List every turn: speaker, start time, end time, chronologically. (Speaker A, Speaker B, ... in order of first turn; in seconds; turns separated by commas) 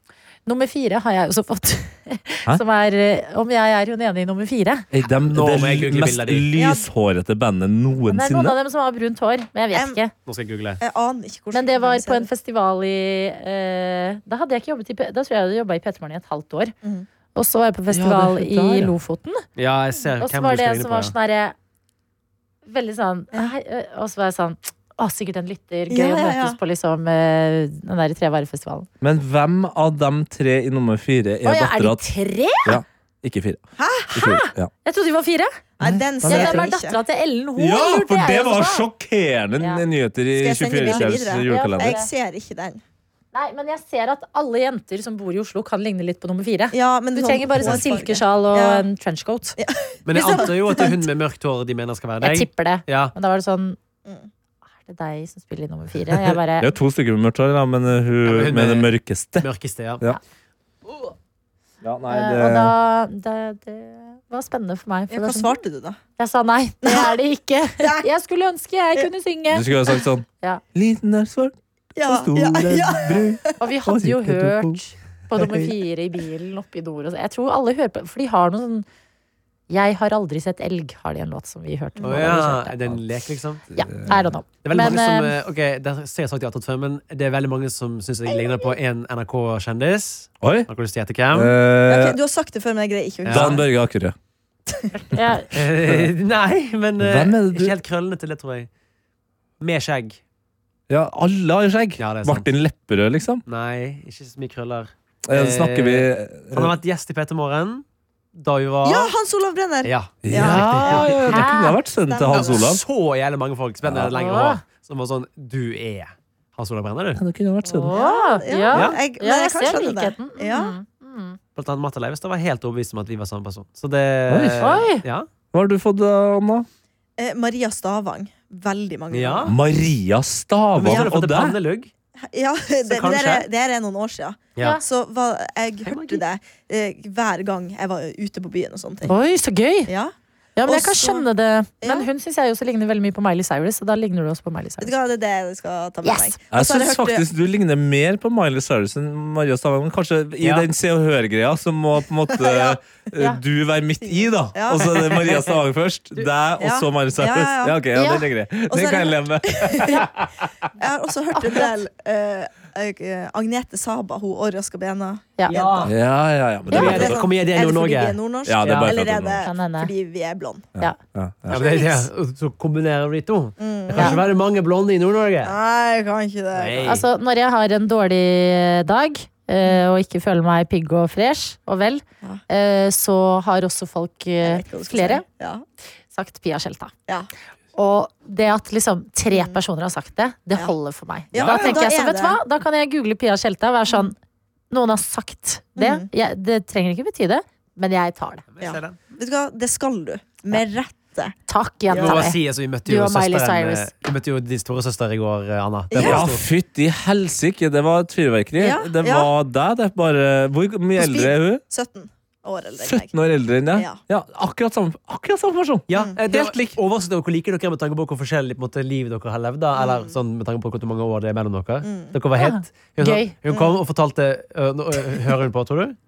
Speaker A: 0.5-4.9, Speaker B: 4.9-8.6, Speaker C: 5.3-6.5, Speaker D: 6.5-6.8, Speaker A: 8.1-10.1, Speaker D: 9.7-10.0, Speaker C: 10.2-10.8, Speaker D: 10.8-12.3, Speaker A: 11.5-16.7, Speaker A: 17.4-19.4, Speaker B: 17.9-18.9, Speaker C: 19.6-21.1, Speaker A: 20.2-21.6, Speaker A: 22.7-28.9, Speaker D: 25.9-26.6, Speaker B: 29.0-32.1, Speaker A: 31.4-32.8, Speaker B: 32.6-34.7, Speaker D: 33.8-34.3, Speaker A: 34.2-35.5, Speaker B: 35.8-36.7, Speaker D: 35.8-37.0, Speaker A: 36.2-38.9, Speaker B: 37.6-42.0, Speaker D: 40.4-42.8, Speaker A: 40.8-42.1, Speaker A: 43.3-49.6, Speaker D: 46.7-48.9, Speaker D: 49.6-51.0, Speaker C: 50.1-53.1, Speaker A: 52.2-53.8, Speaker A: 54.9-56.7, Speaker B: 56.6-59.5, Speaker C: 58.2-60.0, Speaker B: 61.8-62.7, Speaker A: 62.1-65.6, Speaker D: 65.1-66.0, Speaker A: 66.2-69.7, Speaker D: 66.8-67.2, Speaker D: 67.8-68.1, Speaker B: 69.5-74.8, Speaker D: 72.0-73.5, Speaker A: 73.6-78.9, Speaker B: 75.3-75.7, Speaker A: 79.7-82.8, Speaker D: 82.0-82.3, Speaker C: 82.0-83.6, Speaker A: 83.7-85.3, Speaker B: 83.8-84.3, Speaker C: 84.6-91.5, Speaker D: 88.3-88.7, Speaker B: 90.4-90.7, Speaker B: 91.3-92.2, Speaker D: 91.9-93.7, Speaker C: 93.2-93.6, Speaker B: 93.3-94.2, Speaker A: 95.0-95.5, Speaker C: 95.5-98.7, Speaker B: 95.8-96.1, Speaker B: 97.0-97.8, Speaker C: 99.6-100.2, Speaker B: 100.9-103.4, Speaker C: 102.0-102.5, Speaker C: 103.5-107.8, Speaker B: 105.3-106.8, Speaker C: 108.3-109.1, Speaker D: 108.8-111.2, Speaker C: 109.8-111.5, Speaker B: 110.2-112.8, Speaker A: 110.5-111.8, Speaker D: 112.1-112.7, Speaker C: 112.3-117.2, Speaker B: 113.8-114.1, Speaker A: 114.2-114.6, Speaker B: 117.2-117.9, Speaker A: 117.7-121.4, Speaker D: 117.8-120.8, Speaker C: 118.7-119.0, Speaker C: 121.6-125.3, Speaker B: 124.3-124.8, Speaker A: 124.6-125.0, Speaker B: 125.5-126.7, Speaker D: 127.2-129.6, Speaker C: 129.1-129.6, Speaker B: 129.4-131.6, Speaker C: 130.8-131.9, Speaker D: 130.8-131.1, Speaker D: 132.2-139.2, Speaker C: 132.9-133.5, Speaker C: 135.8-136.2, Speaker A: 139.0-139.9, Speaker D: 139.9-140.1, Speaker A: 140.6-144.9, Speaker D: 140.7-141.3, Speaker D: 141.8-142.1, Speaker D: 144.8-147.2, Speaker A: 146.0-146.4, Speaker B: 146.5-160.5, Speaker C: 150.4-150.7, Speaker D: 152.4-152.8, Speaker D: 154.5-155.3, Speaker C: 154.9-155.4, Speaker D: 156.6-157.8, Speaker A: 157.9-158.3, Speaker D: 158.7-160.1, Speaker D: 160.8-165.9, Speaker C: 165.5-165.9, Speaker B: 165.8-167.2, Speaker D: 166.7-170.7, Speaker C: 166.7-169.0, Speaker B: 168.5-169.5, Speaker A: 169.4-169.9, Speaker B: 170.8-171.7, Speaker C: 171.5-175.6, Speaker D: 171.6-171.9, Speaker D: 173.6-174.2, Speaker D: 175.4-177.0, Speaker C: 176.5-177.0, Speaker A: 176.8-185.2, Speaker D: 184.4-185.6, Speaker A: 186.1-186.9, Speaker A: 187.8-194.2, Speaker D: 189.3-189.6, Speaker D: 191.3-192.4, Speaker C: 191.3-191.8, Speaker A: 194.7-198.4, Speaker D: 195.8-196.1, Speaker C: 198.5-199.0, Speaker D: 198.6-201.3, Speaker A: 201.5-203.9, Speaker D: 201.9-202.3, Speaker C: 201.9-206.4, Speaker D: 205.9-206.2, Speaker B: 205.9-211.6, Speaker D: 208.6-209.3, Speaker D: 211.0-213.1, Speaker B: 212.8-216.8, Speaker D: 213.7-214.0, Speaker C: 215.9-226.0, Speaker D: 219.8-220.1, Speaker D: 221.8-222.2, Speaker A: 222.4-223.3, Speaker D: 223.5-223.8